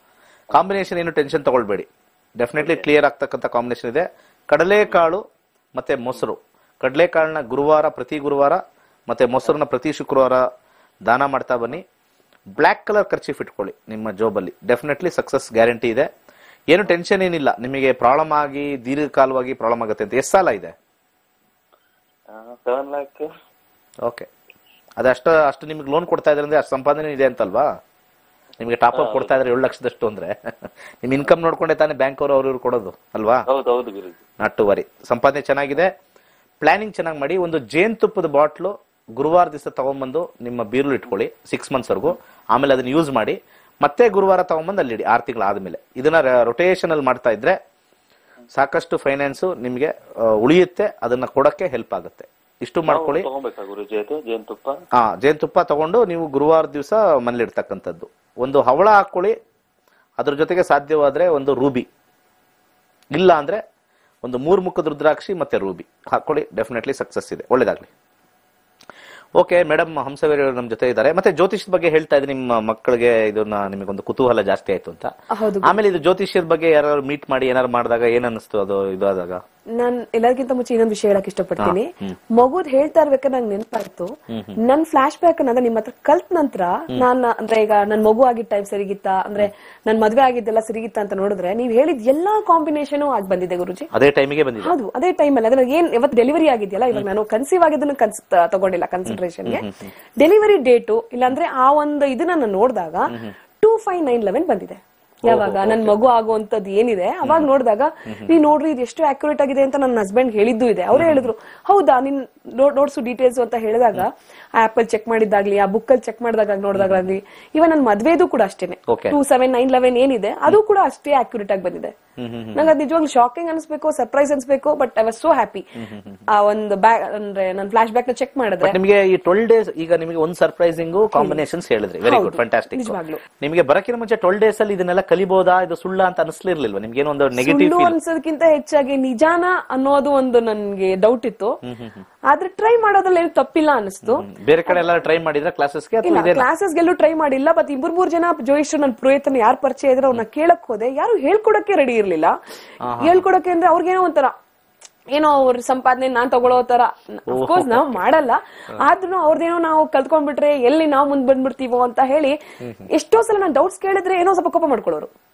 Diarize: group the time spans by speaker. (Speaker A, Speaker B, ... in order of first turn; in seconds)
Speaker A: 0.5-10.4, 11.0-11.8, 12.5-16.1, 16.7-20.7, 25.0-27.7, 28.6-33.4, 34.4-35.9, 36.6-47.6, 48.5-53.2, 54.9-59.4, 60.2-61.9, 63.1-63.6, 64.2-67.9, 69.4-75.1, 75.6-79.4, 81.6-82.2, 84.3-84.5, 93.9-94.7, 99.1-99.9, 103.1-103.3, 105.2-106.0, 107.2-107.5, 108.1-108.3, 110.9-111.3, 116.7-117.1, 118.9-119.2, 122.2-122.7, 125.8-126.2, 128.6-137.9, 141.6-142.0, 144.0-146.5, 152.8-153.2, 157.3-158.0
Speaker B: 2.6-2.9, 22.3-23.3, 28.9-29.4, 33.5-34.2, 52.9-54.8
Speaker C: 75.3-75.8, 79.8-93.9, 94.6-99.6, 100.2-103.1, 103.6-121.9, 122.5-125.6, 126.3-128.8, 131.1-131.4, 132.0-133.2, 137.4-141.6, 142.3-144.8, 146.0-152.3, 153.0-154.3, 155.1-162.3, 162.9-165.1